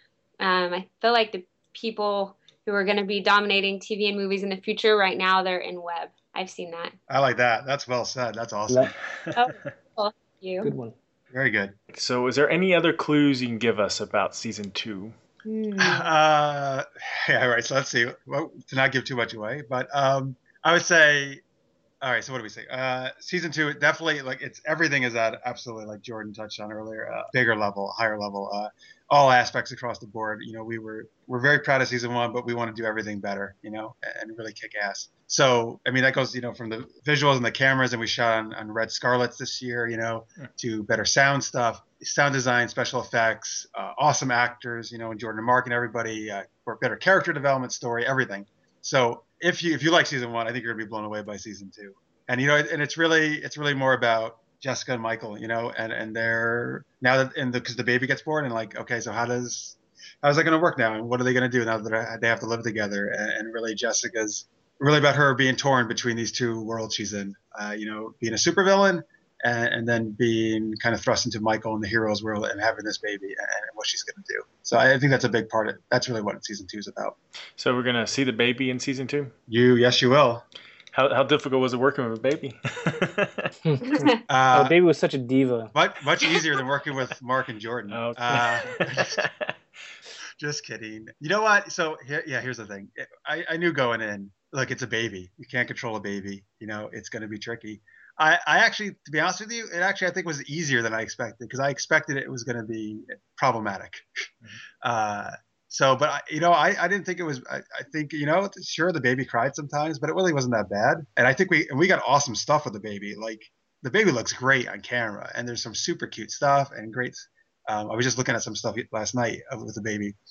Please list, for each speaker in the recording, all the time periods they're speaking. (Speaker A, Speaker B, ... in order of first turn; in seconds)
Speaker A: 0.4-6.9, 9.3-10.7, 15.4-16.1, 83.9-84.2
Speaker B: 7.1-8.9, 11.3-11.7, 15.8-21.4, 22.0-77.2, 79.5-80.4, 84.3-84.7, 85.7-89.3, 90.4-104.1, 104.8-120.1
Speaker C: 10.6-10.9, 83.6-85.7
Speaker D: 11.9-15.1, 77.6-79.3, 80.9-83.5, 87.9-89.5